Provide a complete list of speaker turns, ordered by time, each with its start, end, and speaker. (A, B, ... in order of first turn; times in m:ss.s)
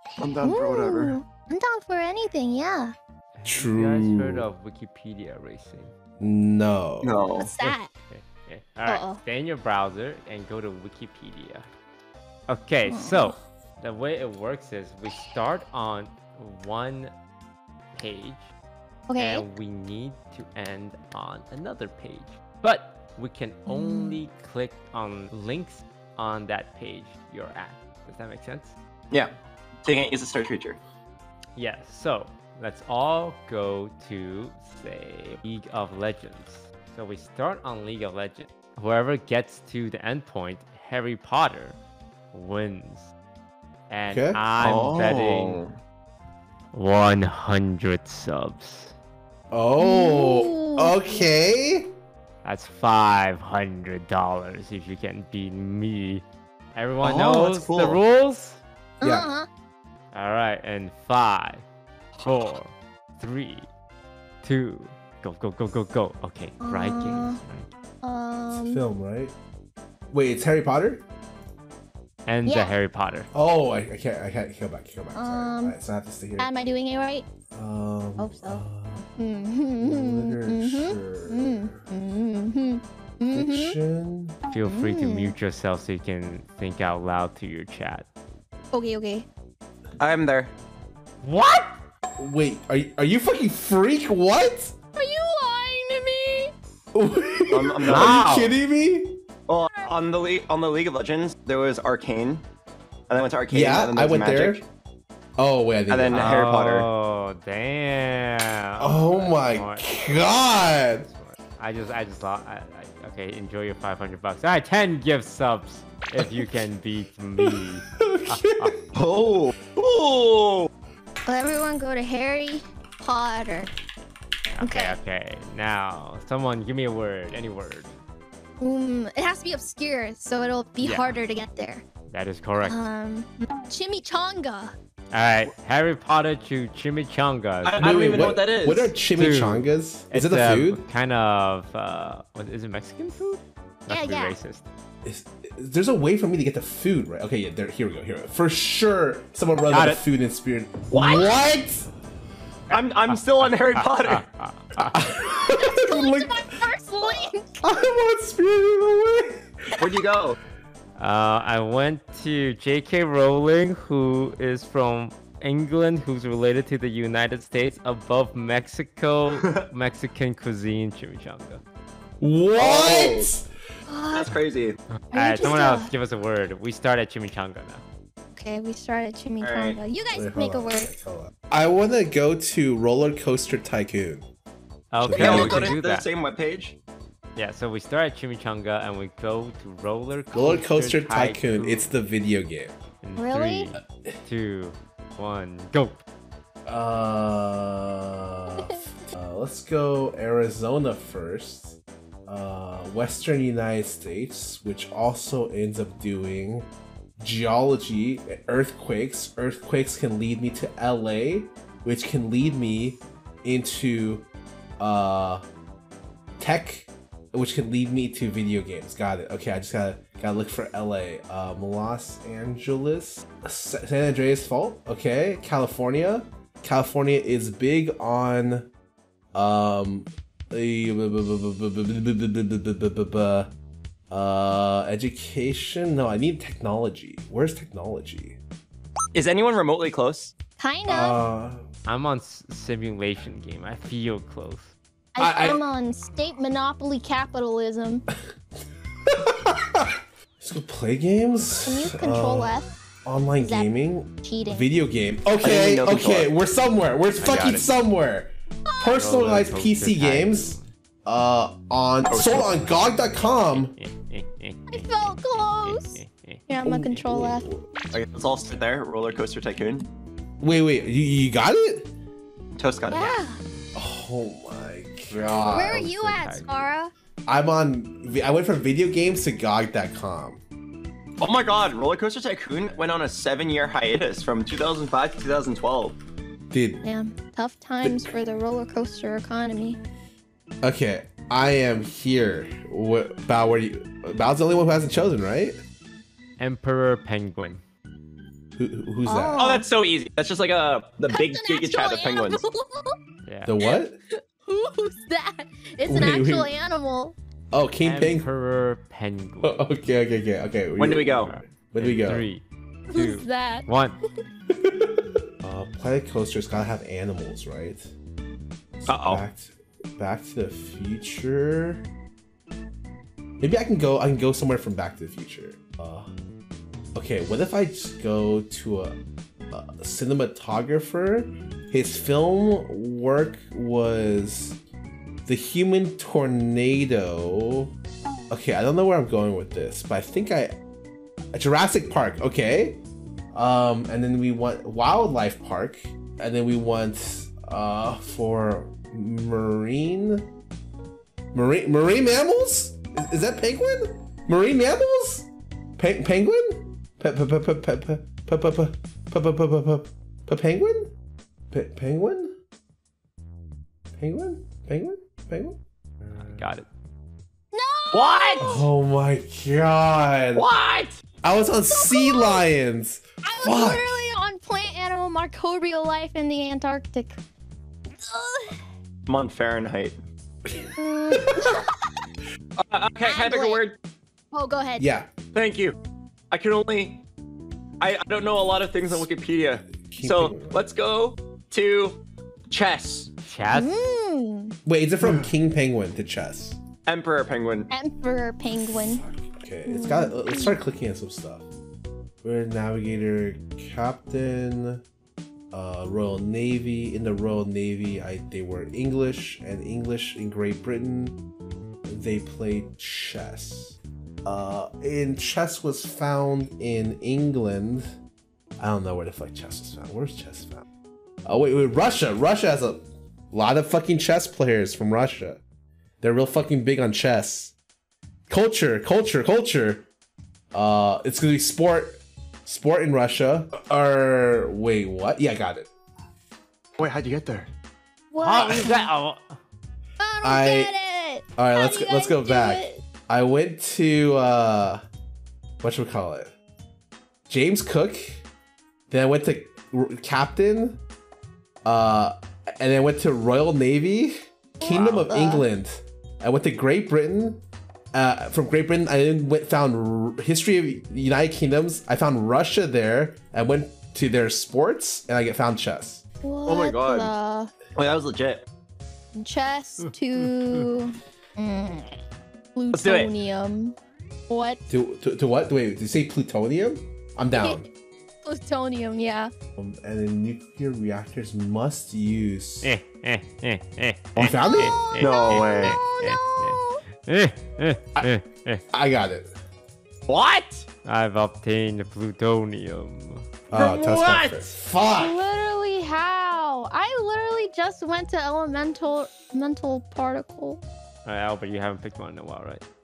0:00.2-0:01.2 A
0:00.4-0:02.9 B
0:03.3-0:05.9 C
0:03.4-0:04.5 D
0:06.2-0:07.2 D
0:07.0-0:07.5 A
0:07.4-0:07.9 B
0:07.6-0:11.7 C
0:08.8-0:09.2 B
0:12.5-0:17.1 C
0:12.8-0:13.4 B
0:17.9-0:18.5 C
0:19.1-0:19.4 B
0:19.2-0:28.8 C
0:23.7-0:24.2 B
0:29.8-0:30.8 A
0:31.5-0:41.8 C
0:42.3-0:43.1 C
0:43.9-0:45.6 C
0:44.1-0:44.4 D
0:44.6-0:45.7 A
0:46.7-0:48.9 C
0:49.5-0:51.9 D
0:49.8-0:51.3 B
0:52.4-0:56.2 C
0:56.7-0:58.6 C
0:57.0-0:58.0 A
0:59.0-0:59.3 D
0:59.0-0:59.5 B
1:00.1-1:01.6 C
1:02.2-1:02.5 A
1:02.2-1:03.7 C
1:04.4-1:07.7 C
1:06.6-1:07.4 B
1:08.0-1:08.8 B
1:08.5-1:09.3 D
1:10.1-1:11.0 D
1:12.2-1:13.3 C
1:12.4-1:12.8 B
1:13.3-1:16.5 D
1:15.1-1:15.7 B
1:16.4-1:17.3 B
1:17.5-1:19.0 D
1:18.2-1:18.6 B
1:19.2-1:23.8 B
1:19.8-1:21.8 D
1:23.3-1:24.4 D
1:24.5-1:28.1 C
1:24.6-1:25.3 B
1:28.7-1:29.3 B
1:30.0-1:30.5 A
1:31.2-1:31.7 C
1:32.2-1:34.7 D
1:34.9-1:36.5 B
1:36.9-1:39.2 D
1:37.5-1:38.2 A
1:37.9-1:38.6 C
1:39.5-1:42.4 A
1:43.1-1:44.6 A
1:43.5-1:44.6 D
1:45.4-1:46.4 D
1:45.9-1:46.9 A
1:46.1-1:58.8 C
1:48.8-1:51.1 D
1:57.4-1:58.7 D
1:58.9-2:00.7 A
2:01.2-2:03.7 B
2:04.5-2:07.9 C
2:04.6-2:05.0 B
2:08.6-2:11.8 B
2:10.8-2:11.2 C
2:12.1-2:12.9 C
2:12.6-2:14.7 B
2:15.1-2:18.2 C
2:17.6-2:18.9 A
2:17.8-2:20.8 D
2:19.1-2:24.6 C
2:23.9-2:24.4 B
2:25.0-2:31.8 D
2:29.7-2:30.0 C
2:30.9-2:31.3 A
2:32.7-2:35.0 C
2:32.7-2:34.2 A
2:34.9-2:36.5 D
2:35.5-2:37.6 B
2:37.0-2:39.4 D
2:39.8-2:40.4 A
2:41.0-2:51.6 C
2:52.2-2:53.5 D
2:52.6-2:53.3 A
2:53.9-2:54.3 B
2:54.1-2:54.8 A
2:55.0-2:57.8 C
2:55.1-2:55.9 B
2:58.4-3:00.9 B
2:59.4-2:59.8 A
3:00.1-3:04.3 D
3:04.9-3:06.1 C
3:05.0-3:05.8 D
3:05.1-3:06.8 A
3:07.4-3:11.9 C
3:10.3-3:12.7 D
3:13.0-3:16.0 C
3:13.2-3:13.7 B
3:16.6-3:26.7 D
3:27.2-3:34.2 D
3:34.8-3:35.4 D
3:36.4-3:48.7 D
3:49.3-3:53.5 D
3:54.1-3:58.4 D
3:59.1-4:00.3 A
4:00.6-4:01.2 B
4:00.9-4:01.6 D
4:01.8-4:04.7 C
4:05.1-4:08.0 B
4:05.2-4:05.6 D
4:09.1-4:09.9 D
4:10.4-4:23.7 D
4:11.6-4:12.7 B
4:13.4-4:14.7 B
4:15.4-4:16.3 A
4:17.2-4:17.7 C
4:18.9-4:20.7 C
4:22.0-4:22.6 A
4:23.5-4:26.5 C
4:24.7-4:27.4 B
4:26.6-4:27.6 D
4:27.9-4:29.9 A
4:30.4-4:31.9 D
4:32.6-4:33.2 A
4:32.9-4:33.4 B
4:32.9-4:33.2 C
4:33.7-4:35.9 D
4:35.2-4:36.5 C
4:35.5-4:36.9 B
4:37.3-4:40.4 D
4:41.2-4:46.0 A
4:46.5-4:46.8 D
4:46.8-4:49.8 B
4:47.8-4:48.1 D
4:50.6-4:55.6 D
4:56.4-4:57.6 C
4:58.6-4:59.5 D
4:59.0-4:59.6 B
4:59.4-5:02.4 A
5:01.1-5:03.0 B
5:03.2-5:03.5 C
5:03.4-5:03.9 D
5:04.4-5:07.2 B
5:05.9-5:06.5 D
5:07.5-5:08.3 D
5:07.8-5:09.6 C
5:09.4-5:12.3 D
5:10.8-5:11.3 A
5:11.2-5:14.0 C
5:12.9-5:13.7 B
5:14.5-5:17.9 D
5:18.8-5:21.8 D
5:18.8-5:19.2 A
5:23.4-5:26.1 D
5:26.9-5:29.0 D
5:29.5-5:34.6 D
5:35.2-5:37.7 D
5:38.3-5:40.5 D
5:41.3-5:42.8 D
5:43.3-5:50.3 D
5:51.3-6:00.9 D
6:01.5-6:02.3 D
6:04.0-6:06.5 D
6:06.1-6:06.7 C
6:07.5-6:08.7 B
6:07.9-6:08.5 A
6:08.4-6:10.4 D
6:10.3-6:11.0 A
6:11.2-6:14.0 D
6:11.7-6:12.4 B
6:13.2-6:17.2 B
6:18.0-6:18.6 B
6:19.1-6:20.0 A
6:20.4-6:21.6 D
6:20.8-6:21.9 B
6:22.6-6:23.8 A
6:23.0-6:23.6 B
6:24.3-6:24.8 B
6:24.8-6:25.1 D
6:25.3-6:25.8 A
6:26.3-6:27.0 A
6:27.8-6:33.1 A
6:29.8-6:30.6 D
6:33.2-6:33.7 C
6:33.5-6:34.5 B
6:34.6-6:36.6 D
6:36.8-6:37.7 A
6:37.7-6:39.0 B
6:38.5-6:41.4 D
6:39.6-6:40.5 B
6:42.2-6:44.8 D
6:45.5-6:51.2 D
6:51.8-6:57.9 D
6:58.6-7:00.6 D
7:01.2-7:05.4 D
7:06.0-7:07.5 D
7:08.3-7:09.8 D
7:10.5-7:15.7 D
7:16.8-7:17.5 A
7:18.1-7:18.9 B
7:18.2-7:19.4 C
7:20.0-7:22.8 B
7:20.2-7:20.7 D
7:21.4-7:24.8 D
7:25.6-7:26.3 D
7:27.3-7:28.2 D
7:28.9-7:30.8 D
7:31.6-7:37.4 D
7:34.6-7:35.4 B
7:37.9-7:46.0 D
7:46.2-7:47.5 B
7:46.4-7:47.1 A
7:47.7-7:48.5 A
7:49.1-7:51.9 B
7:49.8-7:50.7 C
7:52.5-7:53.7 B
7:52.7-7:53.1 A
7:54.3-7:54.6 B
7:54.7-7:57.6 D
7:57.4-7:57.6 B
7:58.2-7:59.3 B
7:59.6-8:02.7 D
8:02.6-8:08.6 C
8:04.2-8:04.8 D
8:04.5-8:06.8 B
8:05.0-8:05.8 A
8:08.7-8:09.3 D
8:10.1-8:10.6 A
8:10.8-8:13.3 C
8:13.5-8:15.2 D
8:13.5-8:14.5 A
8:15.0-8:20.6 B
8:21.0-8:22.6 C